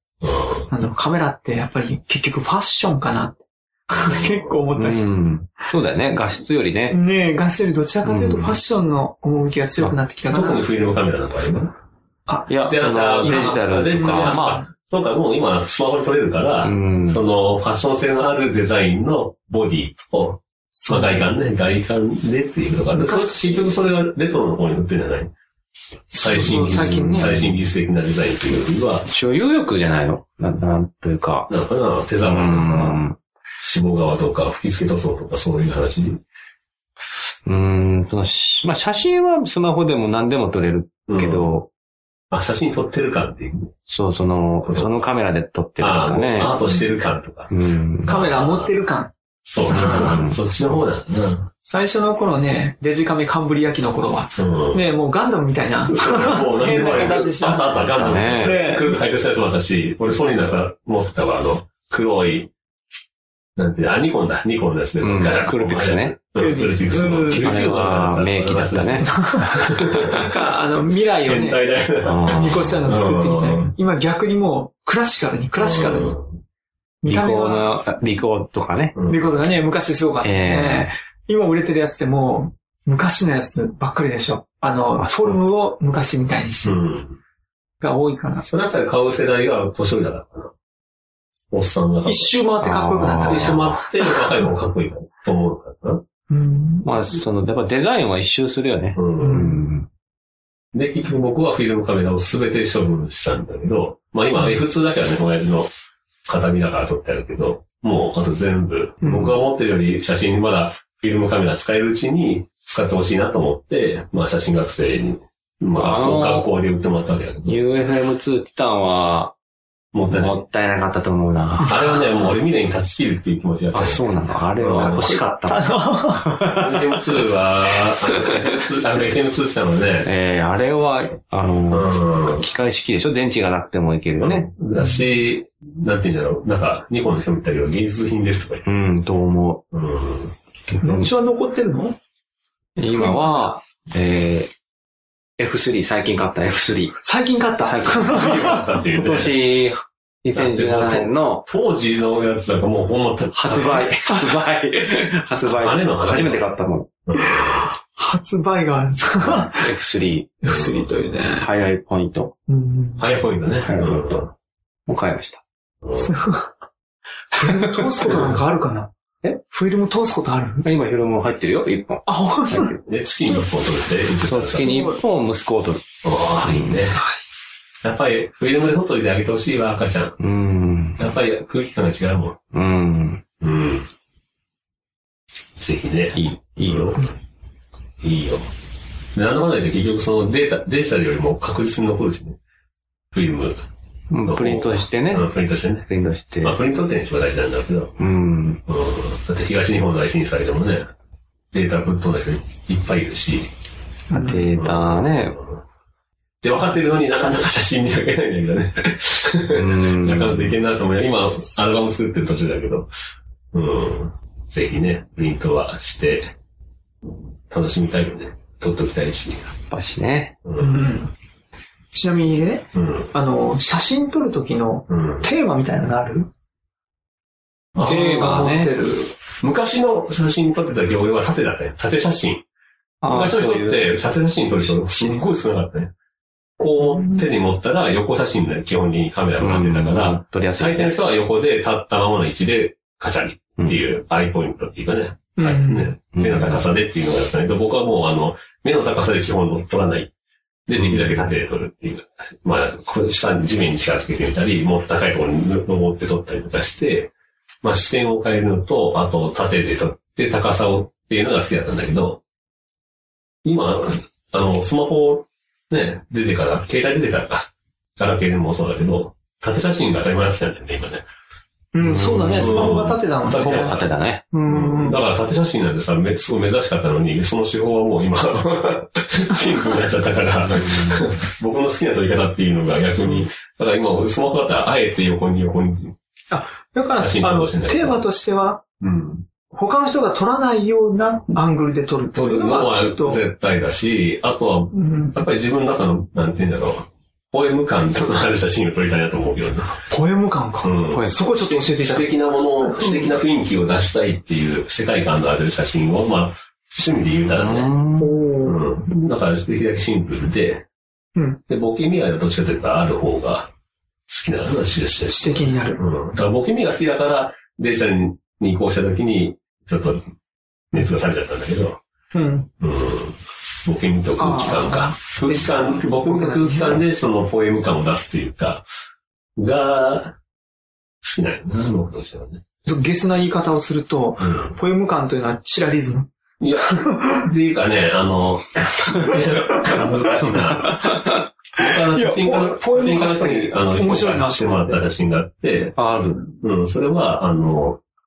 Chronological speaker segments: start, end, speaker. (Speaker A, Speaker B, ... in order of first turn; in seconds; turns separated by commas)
Speaker A: 0.2-0.7, Speaker B: 0.7-5.1, Speaker A: 4.0-4.5, Speaker C: 4.8-7.0, Speaker B: 6.9-10.7, Speaker C: 8.1-8.6, Speaker A: 10.3-11.7, Speaker C: 12.5-14.6, Speaker A: 12.7-25.3, Speaker B: 13.2-14.6, Speaker C: 16.6-17.2, Speaker B: 20.7-21.3, Speaker B: 22.9-23.8, Speaker B: 26.1-27.4, Speaker A: 26.2-29.1, Speaker C: 26.5-27.6, Speaker C: 29.1-31.5, Speaker A: 31.5-33.0, Speaker C: 32.2-33.2, Speaker A: 33.6-36.2, Speaker C: 37.5-41.7, Speaker A: 41.1-41.5, Speaker A: 42.3-43.7, Speaker C: 43.9-46.6, Speaker A: 44.6-45.0, Speaker A: 45.8-47.5, Speaker C: 47.5-48.3, Speaker B: 48.1-49.1, Speaker A: 48.1-48.8, Speaker A: 49.4-51.5, Speaker B: 49.7-50.0, Speaker C: 49.8-50.4, Speaker B: 51.6-59.0, Speaker A: 54.4-54.8, Speaker A: 55.9-62.5, Speaker C: 57.9-58.6, Speaker A: 63.6-70.2, Speaker C: 65.0-66.2, Speaker B: 66.4-67.5, Speaker C: 67.1-69.7, Speaker B: 69.2-69.5, Speaker B: 70.1-71.6, Speaker A: 71.2-73.7, Speaker C: 72.0-72.8, Speaker B: 72.3-76.2, Speaker A: 75.6-76.4, Speaker B: 77.0-77.7, Speaker C: 77.1-79.0, Speaker A: 79.0-79.2, Speaker B: 79.1-87.0, Speaker C: 80.2-80.9, Speaker C: 85.0-85.4, Speaker A: 86.6-87.2, Speaker B: 87.8-88.5, Speaker A: 88.4-90.5, Speaker A: 91.5-92.3, Speaker B: 92.1-93.5, Speaker C: 92.6-93.9, Speaker A: 93.2-96.0, Speaker B: 96.3-96.9, Speaker C: 96.8-99.9, Speaker A: 99.0-99.5, Speaker B: 99.2-99.7, Speaker A: 100.7-105.7, Speaker A: 106.3-117.6, Speaker B: 109.0-109.3, Speaker C: 115.8-116.5, Speaker C: 117.5-119.3, Speaker A: 119.9-120.4, Speaker C: 120.1-121.8, Speaker A: 121.7-124.0, Speaker C: 123.7-126.7, Speaker A: 124.6-125.2, Speaker B: 125.4-126.4, Speaker A: 126.5-130.1, Speaker C: 130.0-134.5, Speaker A: 131.7-132.4, Speaker A: 134.2-138.6, Speaker C: 138.7-139.6, Speaker A: 139.7-140.3, Speaker C: 140.7-141.1, Speaker B: 140.8-142.0, Speaker C: 142.8-144.5, Speaker B: 142.9-143.5, Speaker C: 145.4-147.0, Speaker B: 147.0-148.6, Speaker C: 147.7-151.4, Speaker A: 148.0-149.3, Speaker A: 150.3-153.9, Speaker C: 153.3-156.9, Speaker B: 154.1-154.4, Speaker A: 155.4-156.5, Speaker A: 157.1-157.7, Speaker B: 157.2-159.7, Speaker C: 159.4-160.3, Speaker B: 160.4-161.5, Speaker A: 160.5-160.9, Speaker C: 161.3-162.3, Speaker B: 162.5-163.1, Speaker A: 163.0-164.3, Speaker C: 163.7-164.3, Speaker C: 164.9-165.4, Speaker A: 165.8-166.1, Speaker B: 166.0-166.5, Speaker B: 167.3-168.9, Speaker B: 169.4-170.7, Speaker C: 170.6-172.8, Speaker B: 172.1-172.8, Speaker A: 172.8-174.9, Speaker C: 174.3-175.8, Speaker B: 174.6-175.0, Speaker A: 176.0-177.0, Speaker C: 176.4-176.8, Speaker B: 176.9-177.2, Speaker A: 177.8-180.2, Speaker C: 180.2-181.1, Speaker A: 181.0-182.4, Speaker C: 182.5-183.2, Speaker A: 183.4-183.9, Speaker A: 185.6-187.2, Speaker C: 186.2-187.0, Speaker A: 188.0-188.5, Speaker A: 189.2-192.4, Speaker A: 193.1-193.6, Speaker C: 194.1-195.3, Speaker A: 194.2-195.9, Speaker C: 195.9-196.6, Speaker A: 196.4-198.0, Speaker C: 198.0-198.6, Speaker A: 198.7-200.9, Speaker A: 201.5-203.5, Speaker B: 204.1-204.5, Speaker C: 204.1-205.4, Speaker A: 204.5-205.6, Speaker A: 206.4-212.9, Speaker C: 209.5-210.6, Speaker A: 213.5-216.3, Speaker A: 217.5-219.5, Speaker C: 219.7-220.3, Speaker A: 220.4-220.8, Speaker B: 220.6-221.1, Speaker B: 221.9-226.3, Speaker A: 222.7-223.1, Speaker A: 224.9-225.3, Speaker A: 227.8-228.5, Speaker C: 227.8-228.7, Speaker B: 227.8-229.1, Speaker A: 229.4-232.4, Speaker C: 233.0-233.9, Speaker A: 233.1-235.9, Speaker C: 234.7-235.2, Speaker A: 236.6-250.1, Speaker B: 236.9-237.2, Speaker C: 239.4-240.9, Speaker B: 245.4-245.9, Speaker C: 246.2-246.6, Speaker A: 250.7-257.1, Speaker C: 250.8-251.3, Speaker A: 257.6-262.2, Speaker A: 263.4-271.0, Speaker B: 271.7-275.0, Speaker C: 271.8-272.8, Speaker A: 272.4-273.8, Speaker C: 273.3-274.2, Speaker A: 274.5-285.9, Speaker C: 280.6-281.1, Speaker B: 286.3-288.6, Speaker A: 287.0-288.0, Speaker A: 288.8-289.3, Speaker B: 289.5-293.2, Speaker A: 292.1-299.8, Speaker B: 294.7-295.2, Speaker B: 299.9-302.1, Speaker A: 300.6-307.7, Speaker C: 307.4-308.2, Speaker B: 308.0-308.7, Speaker A: 308.4-310.6, Speaker B: 311.1-311.4, Speaker A: 311.5-313.5, Speaker A: 314.1-320.0, Speaker B: 315.1-315.8, Speaker A: 320.7-321.8, Speaker B: 322.1-322.5, Speaker A: 322.6-328.6, Speaker B: 324.2-326.8, Speaker A: 329.4-330.2, Speaker A: 331.0-332.4, Speaker B: 332.6-336.1, Speaker A: 334.2-334.6, Speaker A: 336.4-340.9, Speaker B: 336.9-337.2, Speaker C: 340.1-341.2, Speaker A: 341.6-345.8, Speaker B: 341.9-344.8, Speaker C: 345.8-346.4, Speaker A: 346.4-347.8